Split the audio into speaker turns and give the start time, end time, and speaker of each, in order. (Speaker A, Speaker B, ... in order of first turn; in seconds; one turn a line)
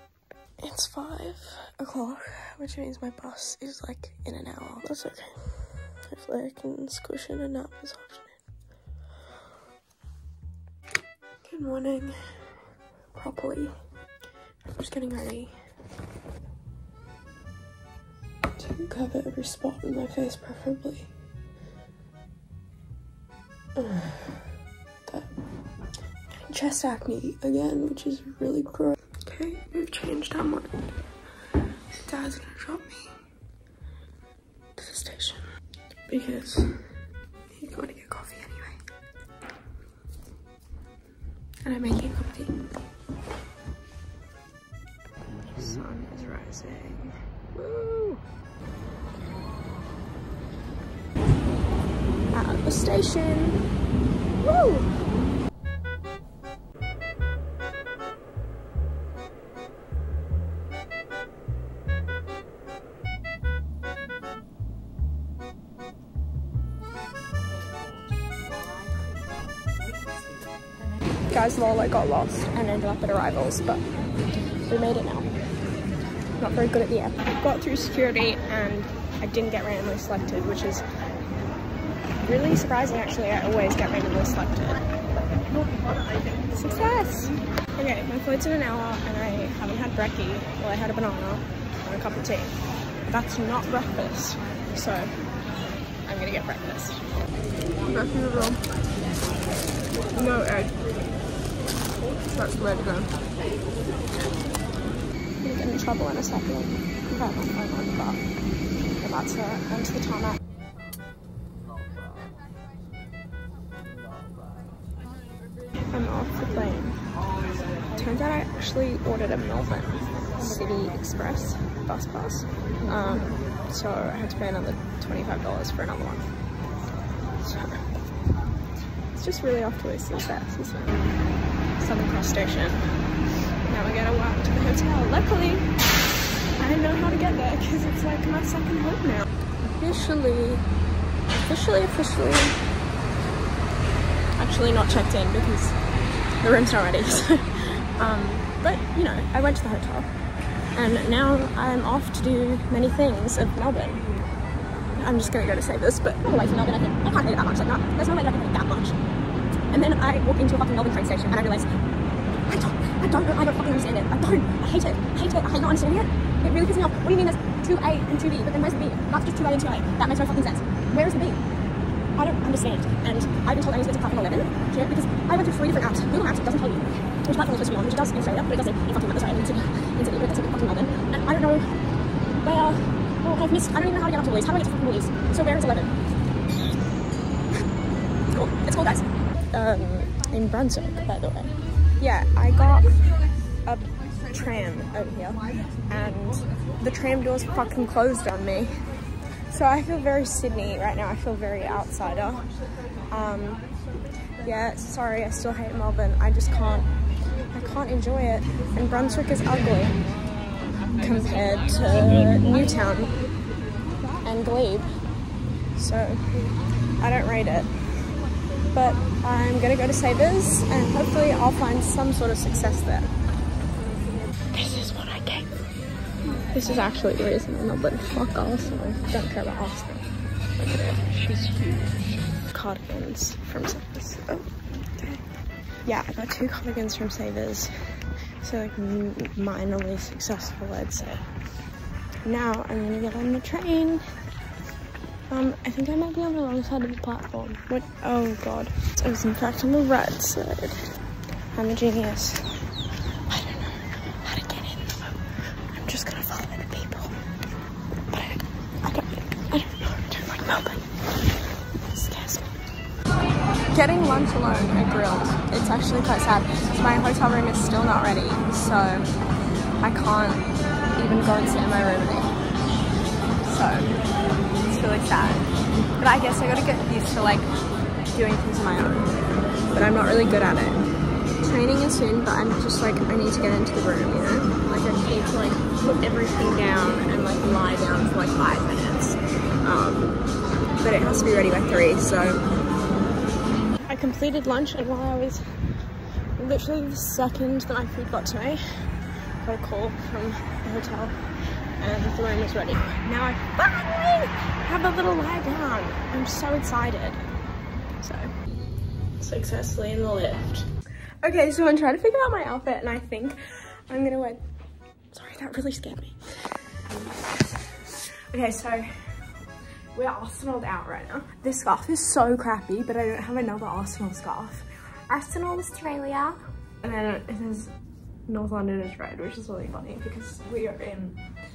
Speaker A: 0.6-5.4
Speaker A: 6.0-8.3
Speaker A: 11.4-12.2
Speaker A: 13.1-13.7
Speaker A: 14.7-15.6
Speaker A: 18.6-21.1
Speaker A: 23.8-24.1
Speaker A: 26.5-30.7
Speaker A: 32.0-33.1
Speaker A: 34.8-35.5
Speaker A: 36.1-36.8
Speaker A: 37.5-38.8
Speaker A: 41.6-42.7
Speaker A: 45.5-48.2
Speaker A: 52.3-53.7
Speaker A: 54.4-54.9
Speaker A: 71.3-73.8
Speaker A: 74.7-75.3
Speaker A: 76.4-80.8
Speaker A: 82.2-84.8
Speaker A: 86.5-92.5
Speaker A: 93.1-95.1
Speaker A: 96.1-97.0
Speaker A: 97.9-98.6
Speaker A: 100.1-100.7
Speaker A: 102.3-103.1
Speaker A: 105.4-108.2
Speaker A: 109.0-110.4
Speaker A: 115.9-117.0
Speaker A: 117.9-126.3
Speaker A: 127.4-127.9
Speaker A: 129.1-131.1
Speaker A: 131.8-132.9
Speaker A: 133.7-135.7
Speaker A: 136.6-140.6
Speaker A: 141.4-142.6
Speaker A: 144.4-145.8
Speaker A: 146.4-150.1
Speaker A: 150.8-154.0
Speaker A: 155.0-159.0
Speaker A: 159.7-161.7
Speaker A: 162.5-171.4
Speaker A: 172.2-181.7
Speaker A: 182.4-185.9
Speaker A: 188.3-193.0
Speaker A: 193.7-198.7
Speaker A: 199.5-202.5
Speaker A: 203.1-203.6
Speaker A: 204.4-206.9
Speaker A: 207.5-210.0
Speaker A: 210.9-213.2
Speaker A: 214.2-214.9
Speaker A: 215.8-216.2
Speaker A: 217.0-217.7
Speaker A: 218.7-223.1
Speaker A: 224.5-225.7
Speaker A: 226.5-230.1
Speaker A: 230.6-231.8
Speaker A: 232.5-235.2
Speaker A: 235.8-237.7
Speaker A: 238.4-241.2
Speaker A: 242.2-244.0
Speaker A: 245.3-250.8
Speaker A: 251.5-252.6
Speaker A: 253.3-257.1
Speaker A: 258.1-260.9
Speaker A: 261.9-262.5
Speaker A: 263.7-269.1
Speaker A: 269.8-272.3
Speaker A: 273.4-273.9
Speaker A: 274.7-277.5
Speaker A: 278.1-279.2
Speaker A: 279.7-280.8
Speaker A: 281.4-290.2
Speaker A: 290.8-292.4
Speaker A: 293.9-295.4
Speaker A: 296.4-298.6
Speaker A: 299.4-301.2
Speaker A: 301.8-307.2
Speaker A: 308.0-308.3
Speaker A: 309.2-310.7
Speaker A: 311.2-313.4
Speaker A: 313.9-314.4
Speaker A: 315.1-316.2
Speaker A: 316.9-318.9
Speaker A: 319.9-327.7
Speaker A: 328.3-331.2